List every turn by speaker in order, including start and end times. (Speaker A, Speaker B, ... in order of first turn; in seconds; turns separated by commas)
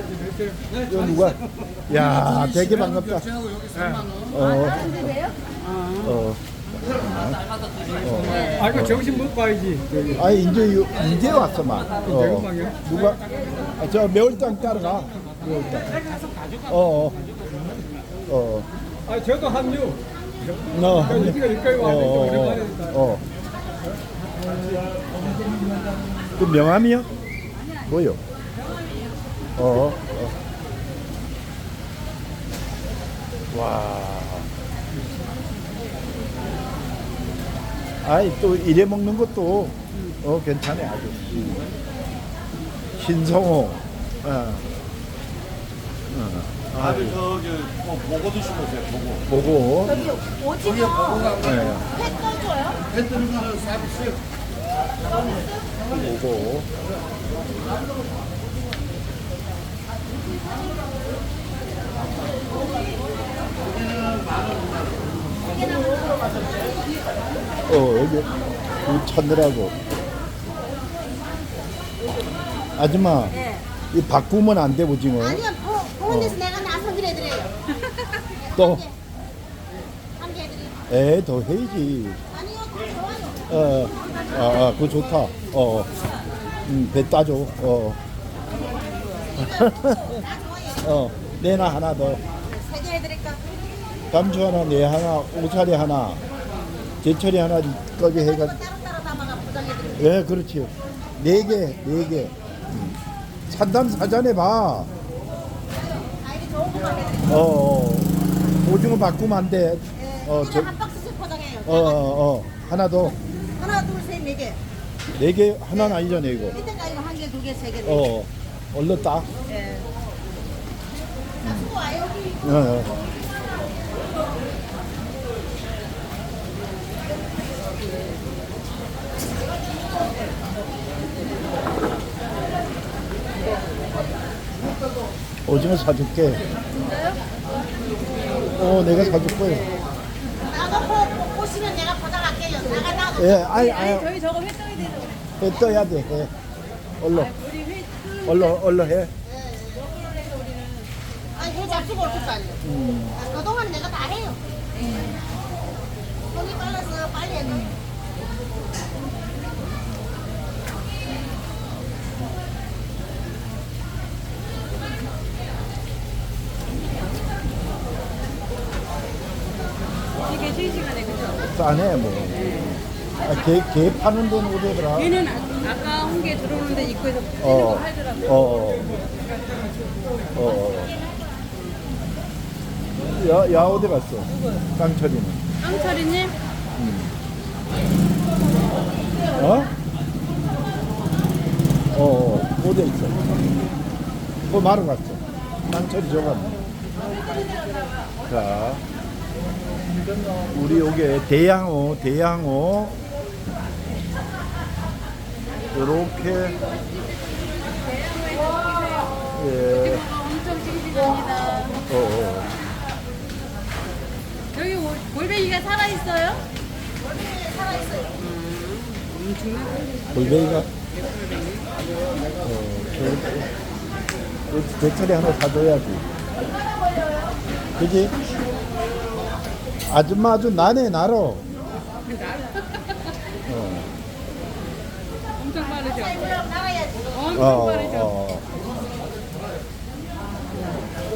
Speaker A: 0.2-1.4, Speaker B: 0.9-3.2, Speaker C: 1.9-4.4, Speaker A: 3.7-4.0, Speaker B: 4.3-5.1, Speaker D: 4.3-5.4, Speaker A: 5.6-6.2, Speaker B: 6.0-9.2, Speaker D: 8.2-8.8, Speaker A: 8.5-10.3, Speaker B: 10.1-13.2, Speaker A: 12.0-13.2, Speaker D: 13.2-13.7, Speaker B: 13.8-15.9, Speaker A: 15.3-18.1, Speaker B: 16.7-17.2, Speaker B: 18.3-18.7, Speaker A: 19.0-23.0, Speaker B: 20.7-23.2, Speaker A: 24.3-25.2, Speaker B: 26.4-27.1, Speaker D: 27.6-27.8, Speaker B: 27.9-28.2, Speaker D: 28.6-29.1, Speaker B: 29.6-30.3, Speaker B: 33.5-34.5, Speaker B: 38.0-41.6, Speaker B: 43.0-44.6, Speaker B: 46.1-47.2, Speaker C: 46.7-49.3, Speaker B: 49.3-50.0, Speaker E: 49.8-52.8, Speaker C: 49.9-51.8, Speaker B: 51.4-51.8, Speaker C: 52.9-54.2, Speaker B: 55.9-56.7, Speaker C: 63.6-65.3, Speaker E: 65.5-67.0, Speaker B: 67.7-68.3, Speaker B: 68.8-69.8, Speaker B: 72.8-73.4, Speaker D: 73.3-73.6, Speaker B: 73.9-75.4, Speaker E: 75.2-77.5, Speaker B: 76.1-76.4, Speaker E: 78.3-79.0, Speaker B: 78.5-78.8, Speaker E: 80.2-80.8, Speaker B: 80.9-82.2, Speaker E: 82.3-83.5, Speaker B: 83.5-85.9, Speaker B: 86.7-88.0, Speaker E: 89.2-91.0, Speaker B: 89.3-90.2, Speaker B: 90.8-92.2, Speaker E: 92.3-93.4, Speaker B: 94.1-96.2, Speaker B: 97.0-98.6, Speaker E: 98.0-100.1, Speaker B: 100.0-103.0, Speaker B: 103.5-104.9, Speaker E: 105.7-107.5, Speaker B: 107.3-108.1, Speaker B: 108.6-110.7, Speaker E: 109.9-112.0, Speaker B: 111.7-113.1, Speaker E: 113.5-114.6, Speaker B: 115.2-116.6, Speaker E: 115.7-116.0, Speaker E: 116.5-118.0, Speaker B: 117.8-119.3, Speaker E: 119.5-119.9, Speaker E: 121.4-122.7, Speaker B: 121.4-121.7, Speaker B: 122.4-123.0, Speaker B: 135.4-136.4, Speaker D: 136.7-137.3, Speaker B: 138.5-139.7, Speaker E: 140.4-143.4, Speaker B: 143.2-144.1, Speaker D: 143.4-145.4, Speaker B: 145.4-146.3, Speaker B: 147.0-147.3, Speaker D: 147.1-148.8, Speaker B: 148.2-149.1, Speaker E: 149.2-149.9, Speaker D: 149.7-152.3, Speaker E: 151.3-154.4, Speaker B: 152.6-153.2, Speaker D: 154.7-155.2, Speaker E: 156.3-157.7, Speaker B: 157.4-157.8, Speaker D: 170.2-171.5, Speaker B: 171.5-175.2, Speaker D: 172.3-173.3, Speaker D: 174.9-178.9, Speaker B: 177.4-179.0, Speaker A: 179.6-180.0, Speaker B: 180.3-181.0, Speaker B: 183.0-185.5, Speaker D: 185.6-186.4, Speaker B: 186.8-187.1, Speaker B: 189.3-189.7, Speaker B: 191.9-193.3, Speaker B: 194.5-196.6, Speaker D: 197.2-198.1, Speaker B: 198.2-198.8, Speaker B: 200.5-203.0, Speaker B: 205.7-206.6, Speaker D: 206.3-211.8, Speaker B: 209.3-210.1, Speaker B: 211.9-212.5, Speaker D: 214.5-216.4, Speaker E: 217.0-218.2, Speaker D: 218.2-221.7, Speaker B: 220.1-220.7, Speaker B: 222.4-223.5, Speaker B: 224.5-226.0, Speaker E: 226.4-227.4, Speaker B: 227.8-228.1, Speaker B: 229.9-231.5, Speaker D: 232.1-233.1, Speaker B: 233.5-233.9, Speaker D: 235.4-236.4, Speaker E: 235.7-237.2, Speaker D: 237.1-238.1, Speaker B: 237.3-238.5